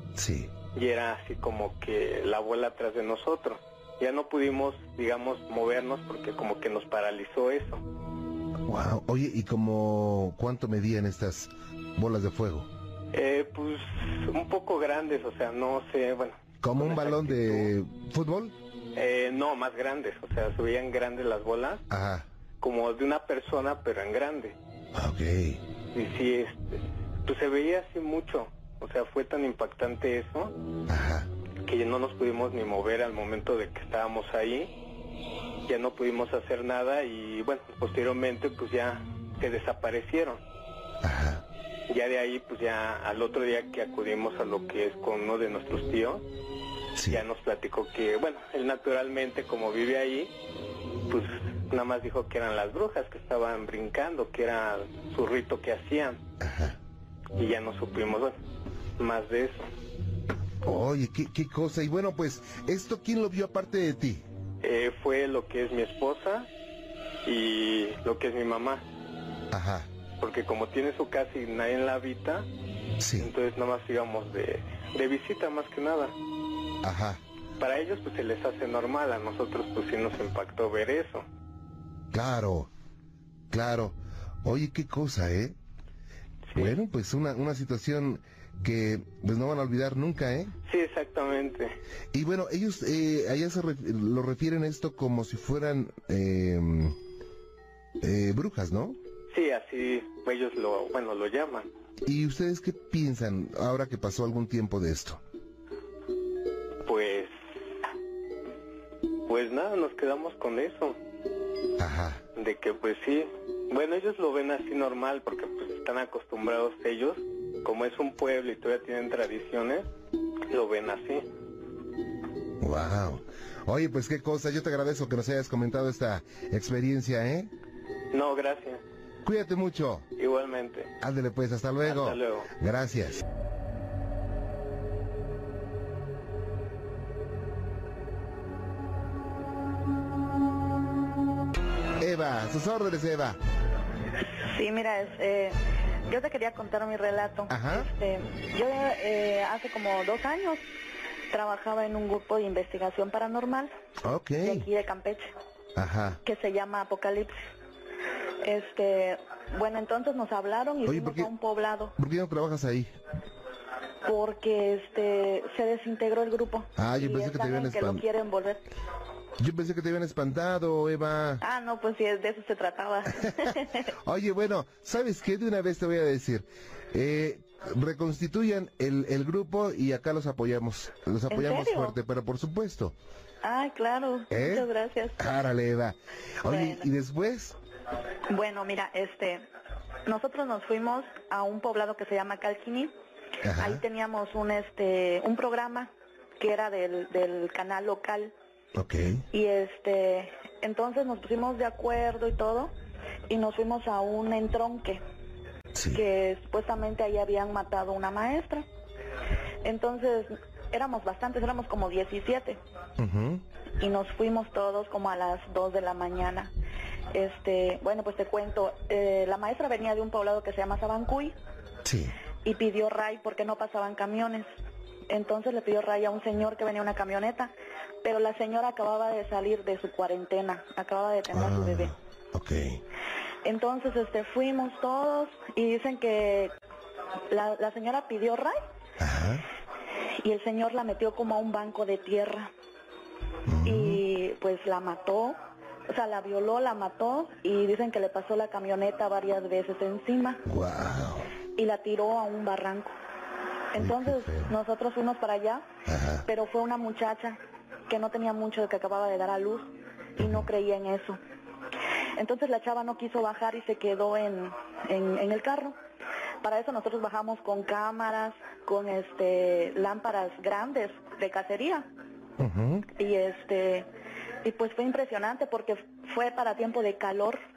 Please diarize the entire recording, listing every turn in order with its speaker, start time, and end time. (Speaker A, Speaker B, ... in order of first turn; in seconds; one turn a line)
Speaker A: 0.2-0.5
Speaker B: 0.7-7.8
Speaker A: 8.7-12.7
Speaker B: 13.1-17.7
Speaker A: 16.6-18.6
Speaker B: 18.9-21.8
Speaker A: 21.9-22.3
Speaker B: 22.6-24.6
Speaker A: 24.9-25.6
Speaker B: 25.9-30.5
Speaker A: 30.9-31.3
Speaker B: 31.6-34.7
Speaker B: 35.7-40.4
Speaker A: 41.0-41.5
Speaker B: 41.9-46.2
Speaker A: 47.0-47.2
Speaker B: 47.1-50.3
Speaker B: 51.1-56.2
Speaker A: 56.4-56.8
Speaker B: 57.4-58.4
Speaker B: 59.0-59.7
Speaker A: 60.6-64.2
Speaker B: 64.6-66.5
Speaker B: 67.2-68.8
Speaker A: 69.5-69.9
Speaker B: 70.2-72.5
Speaker A: 73.0-73.3
Speaker B: 73.2-76.1
Speaker A: 76.8-77.2
Speaker B: 77.6-81.2
Speaker A: 82.1-82.7
Speaker A: 83.5-85.6
Speaker A: 86.6-90.5
Speaker B: 90.7-91.7
Speaker A: 92.1-97.0
Speaker A: 98.0-99.0
Speaker B: 99.3-101.7
Speaker A: 102.0-105.2
Speaker B: 106.8-107.3
Speaker B: 109.3-111.0
Speaker A: 111.8-112.2
Speaker B: 112.4-119.9
Speaker B: 120.5-121.3
Speaker A: 122.6-127.5
Speaker B: 128.1-128.8
Speaker A: 129.2-130.1
Speaker B: 130.2-130.9
Speaker A: 131.0-133.2
Speaker B: 131.8-132.5
Speaker A: 142.0-143.4
Speaker C: 144.4-145.6
Speaker C: 146.1-150.6
Speaker A: 147.5-147.9
Speaker C: 151.3-153.7
Speaker A: 154.0-154.7
Speaker C: 154.4-155.3
Speaker A: 155.8-156.2
Speaker C: 156.2-157.4
Speaker C: 158.4-161.9
Speaker A: 160.9-161.3
Speaker A: 162.0-162.9
Speaker C: 164.0-168.6
Speaker A: 166.8-168.0
Speaker A: 169.4-171.4
Speaker C: 171.4-173.7
Speaker A: 173.1-182.9
Speaker C: 181.3-182.0
Speaker C: 183.4-185.2
Speaker A: 184.3-187.6
Speaker C: 186.5-186.9
Speaker C: 188.3-189.4
Speaker C: 190.1-192.9
Speaker A: 193.4-193.8
Speaker C: 193.6-198.3
Speaker A: 198.8-199.2
Speaker C: 199.3-202.8
Speaker C: 203.3-205.0
Speaker A: 205.7-206.0
Speaker C: 205.9-208.7
Speaker C: 209.6-212.6
Speaker A: 213.0-213.4
Speaker C: 213.8-216.5
Speaker C: 217.1-221.4
Speaker A: 221.8-222.2
Speaker C: 222.4-224.5
Speaker C: 225.1-227.5
Speaker C: 228.0-231.9
Speaker A: 231.3-232.8
Speaker C: 233.4-236.5
Speaker C: 237.3-238.6
Speaker A: 239.0-239.5
Speaker C: 240.2-242.5
Speaker A: 243.5-244.0
Speaker C: 243.7-245.4
Speaker C: 245.9-250.4
Speaker A: 250.5-251.3
Speaker C: 251.6-252.9
Speaker C: 253.7-255.7
Speaker A: 253.8-254.5
Speaker A: 255.9-256.3
Speaker C: 256.3-259.7
Speaker A: 260.2-260.5
Speaker C: 260.2-261.2
Speaker C: 262.2-265.8
Speaker C: 266.4-271.9
Speaker A: 272.4-272.9
Speaker C: 273.0-273.9
Speaker C: 274.4-277.4